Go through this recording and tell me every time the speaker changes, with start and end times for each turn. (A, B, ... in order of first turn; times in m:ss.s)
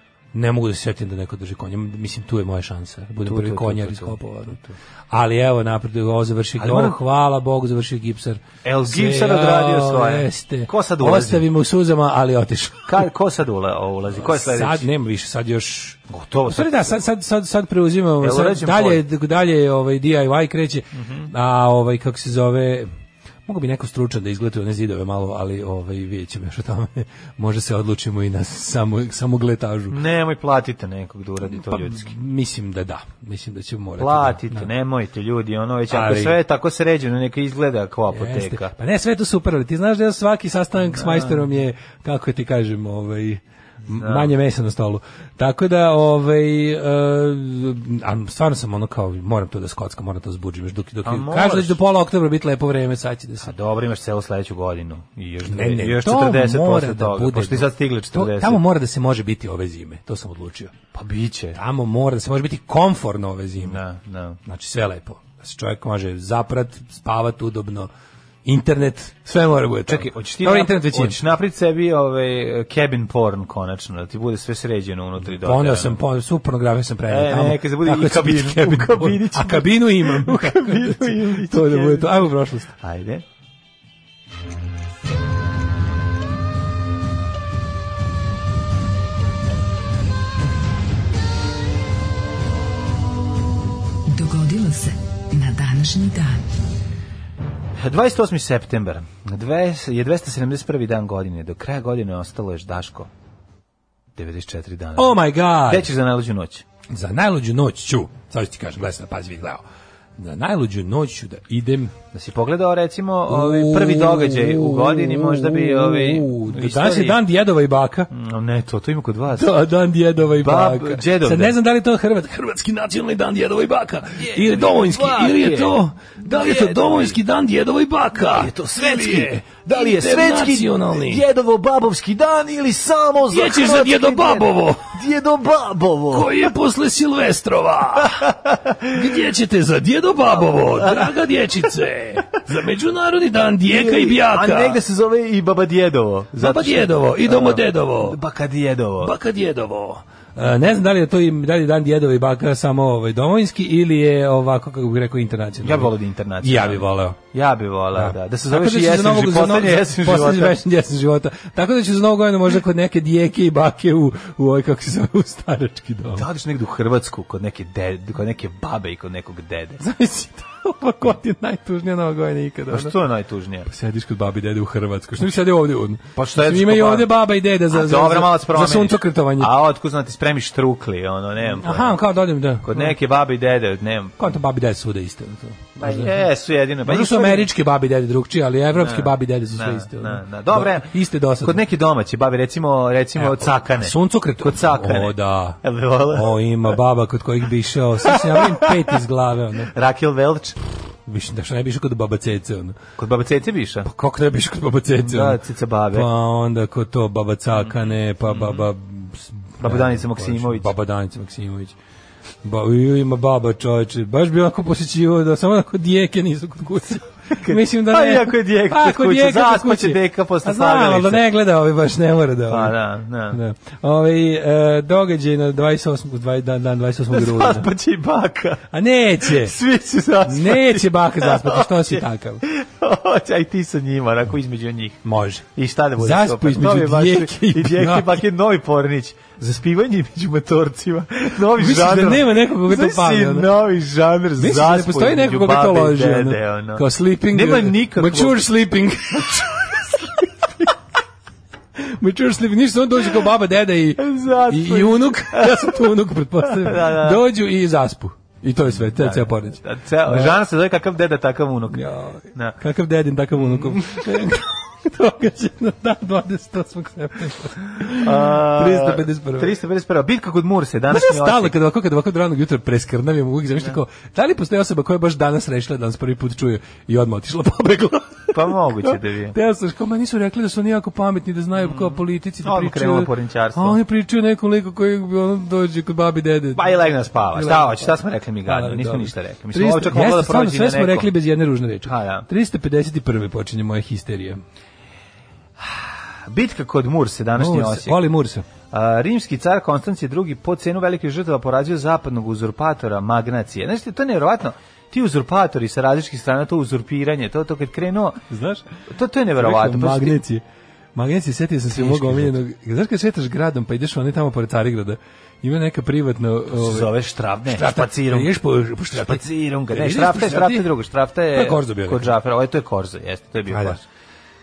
0:00.3-0:13.1 A
0:03.2-0:04.8 B
0:06.6-0:07.0 B
0:08.6-0:11.5 B
0:12.9-0:14.9 B
0:14.1-0:22.9 A
0:16.1-0:17.0 B
0:18.2-0:19.0 B
0:21.0-0:21.3 B
0:23.5-0:30.0 A
0:29.9-0:32.2 B
0:31.4-0:34.7 A
0:34.0-0:38.7 B
0:35.9-0:36.4 A
0:38.1-0:53.5 A
0:40.9-0:41.5 B
0:43.9-0:44.3 B
0:51.0-0:51.8 B
0:53.4-0:58.6 B
0:55.4-1:00.7 A
1:00.9-1:01.6 B
1:01.5-1:03.8 A
1:03.6-1:04.4 B
1:04.4-1:07.9 A
1:08.4-1:11.2 A
1:09.9-1:16.0 B
1:15.4-1:22.7 A
1:17.1-1:23.2 B
1:34.1-1:36.4 C
1:37.8-1:43.1 B
1:44.2-1:46.6 B
1:45.0-1:45.9 A
1:46.9-1:49.6 A
1:50.2-1:52.0 A
1:52.1-1:57.2 B
1:53.3-1:58.1 A
1:58.1-1:59.5 B
1:59.4-2:11.2 A
2:00.4-2:01.6 B
2:04.2-2:07.2 B
2:08.3-2:16.4 B
2:13.3-2:15.0 A
2:16.1-2:18.3 A
2:18.0-2:19.0 B
2:18.9-2:24.8 A
2:20.4-2:21.1 B
2:23.7-2:29.1 B
2:26.4-2:28.2 A
2:29.0-2:37.2 A
2:35.6-2:40.6 B
2:37.9-2:46.3 A
2:46.1-2:49.8 B
2:49.8-2:53.0 A
2:52.7-2:53.7 B
2:53.7-2:59.5 A
2:56.2-2:57.1 B
2:57.7-3:02.0 B
3:01.5-3:03.0 A
3:02.6-3:04.2 B
3:04.2-3:06.2 A
3:05.8-3:07.5 B
3:06.8-3:11.6 A
3:08.8-3:16.3 B
3:13.2-3:19.7 A
3:18.1-3:18.9 B
3:19.7-3:20.6 B
3:21.1-3:22.8 A
3:23.0-3:23.9 B
3:23.8-3:25.4 A
3:25.0-3:26.1 B
3:25.9-3:31.8 A
3:28.3-3:28.7 B
3:29.6-3:30.7 B
3:32.4-3:42.8 A
3:37.3-3:41.2 B
3:42.5-3:43.4 B
3:43.3-3:47.7 A
3:47.1-3:48.7 B
3:48.7-3:49.6 A
3:49.2-4:08.4 B
3:50.2-3:52.4 A
3:55.0-3:58.2 A
4:01.5-4:03.5 A
4:04.4-4:10.8 A
4:11.8-4:20.4 A
4:14.0-4:15.9 B
4:16.4-4:17.2 B
4:18.7-4:22.6 B
4:21.7-4:29.6 A
4:23.4-4:24.0 B
4:28.0-4:31.5 B
4:30.9-4:46.8 A
4:38.3-4:39.4 B
4:41.6-4:43.8 B
4:46.6-4:51.1 B
4:47.3-4:54.4 A
4:51.8-4:52.3 B
4:55.6-4:58.0 B
4:57.4-4:58.5 A
4:58.7-5:08.2 B
5:08.3-5:08.6 A
5:08.9-5:10.2 B
5:09.4-5:10.4 A
5:11.0-5:16.9 A
5:11.7-5:12.3 B
5:16.5-5:18.4 B
5:17.5-5:20.7 A
5:19.0-5:23.8 B
5:21.3-5:22.1 A
5:23.5-5:23.8 A